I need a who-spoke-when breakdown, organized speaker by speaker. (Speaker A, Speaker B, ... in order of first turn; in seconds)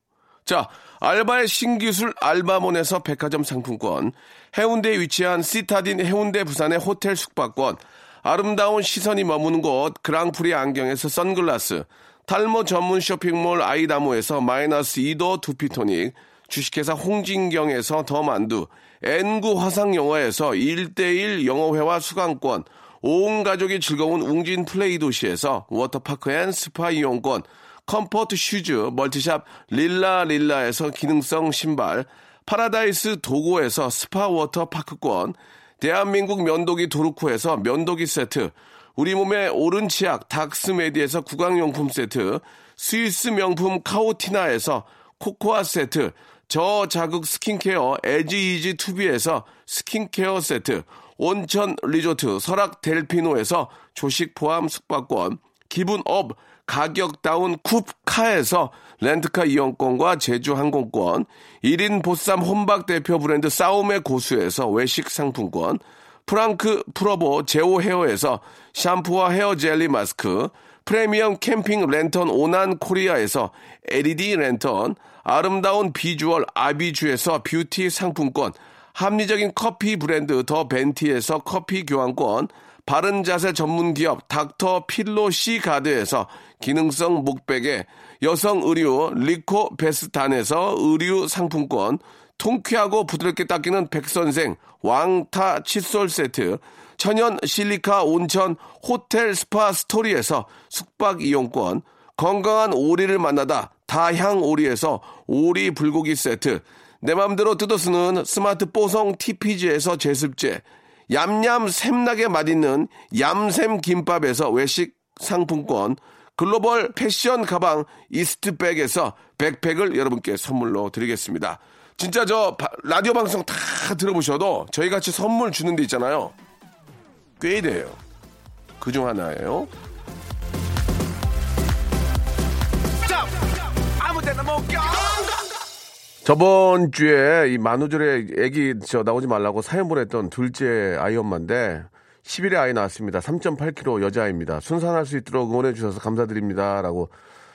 Speaker A: 0.5-126.3, 127.4-128.0, 128.8-129.7, 133.9-135.4, 136.2-147.1